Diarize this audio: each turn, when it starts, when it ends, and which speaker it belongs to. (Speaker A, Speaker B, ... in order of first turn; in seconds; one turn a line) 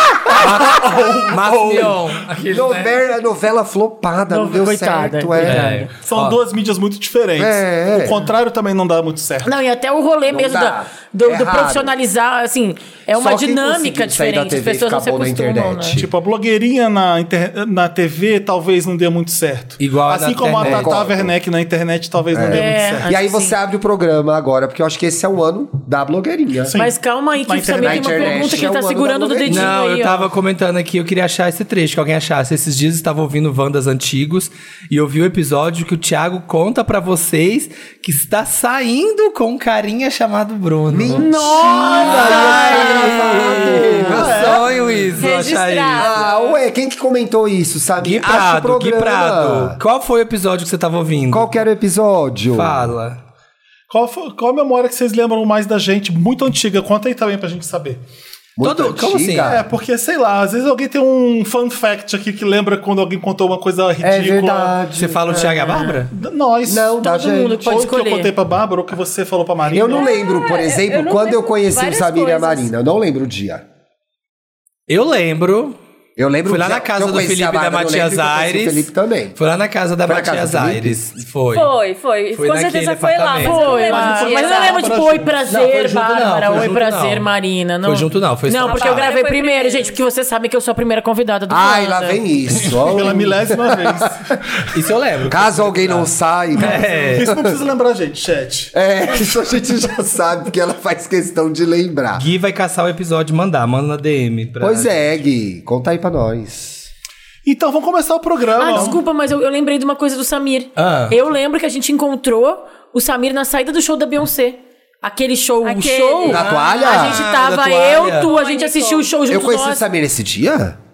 Speaker A: 0.3-2.1
Speaker B: 0.3-3.0
Speaker C: 2.4-5.8
Speaker D: 4.3-5.9
Speaker B: 5.4-6.4
Speaker A: 6.0-9.5
Speaker C: 7.4-8.2
Speaker D: 9.4-16.0
Speaker C: 10.3-11.9
Speaker C: 13.1-16.1
Speaker A: 15.9-23.1
Speaker B: 19.8-21.0
Speaker C: 20.6-21.3
Speaker C: 22.3-26.7
Speaker D: 22.5-23.6
Speaker A: 26.6-28.7
Speaker D: 26.8-30.3
Speaker C: 27.8-29.7
Speaker B: 29.4-41.3
Speaker C: 40.9-44.7
Speaker D: 41.1-43.8
Speaker B: 42.0-46.2
Speaker A: 44.0-44.7
Speaker E: 45.1-46.5
Speaker C: 46.0-49.8
Speaker B: 48.0-51.6
Speaker C: 51.3-52.8
Speaker B: 52.5-53.2
Speaker A: 53.9-58.0
Speaker C: 58.6-59.6
Speaker B: 58.6-59.6
Speaker A: 59.4-64.8
Speaker C: 64.0-65.2
Speaker B: 64.9-66.1
Speaker D: 65.3-66.0
Speaker A: 66.1-70.1
Speaker C: 66.7-67.7
Speaker D: 67.0-68.3
Speaker C: 69.7-73.6
Speaker E: 69.9-72.7
Speaker B: 74.9-75.8
Speaker C: 76.2-79.4
Speaker B: 76.5-81.7
Speaker C: 80.0-81.0
Speaker E: 81.5-84.8
Speaker B: 82.3-83.7
Speaker D: 83.4-92.2
Speaker A: 83.6-85.5
Speaker B: 85.5-87.3
Speaker B: 87.8-89.1
Speaker E: 88.6-89.9
Speaker C: 91.5-94.3
Speaker A: 92.8-94.7
Speaker B: 94.7-97.3
Speaker C: 95.3-97.6
Speaker A: 96.6-98.7
Speaker C: 98.7-102.2
Speaker B: 102.2-105.2
Speaker C: 104.6-106.9
Speaker A: 107.4-109.0
Speaker D: 108.5-119.8
Speaker B: 110.8-111.2
Speaker E: 115.6-116.6
Speaker C: 116.2-117.2
Speaker B: 116.3-118.3
Speaker E: 118.0-119.1
Speaker C: 119.3-120.8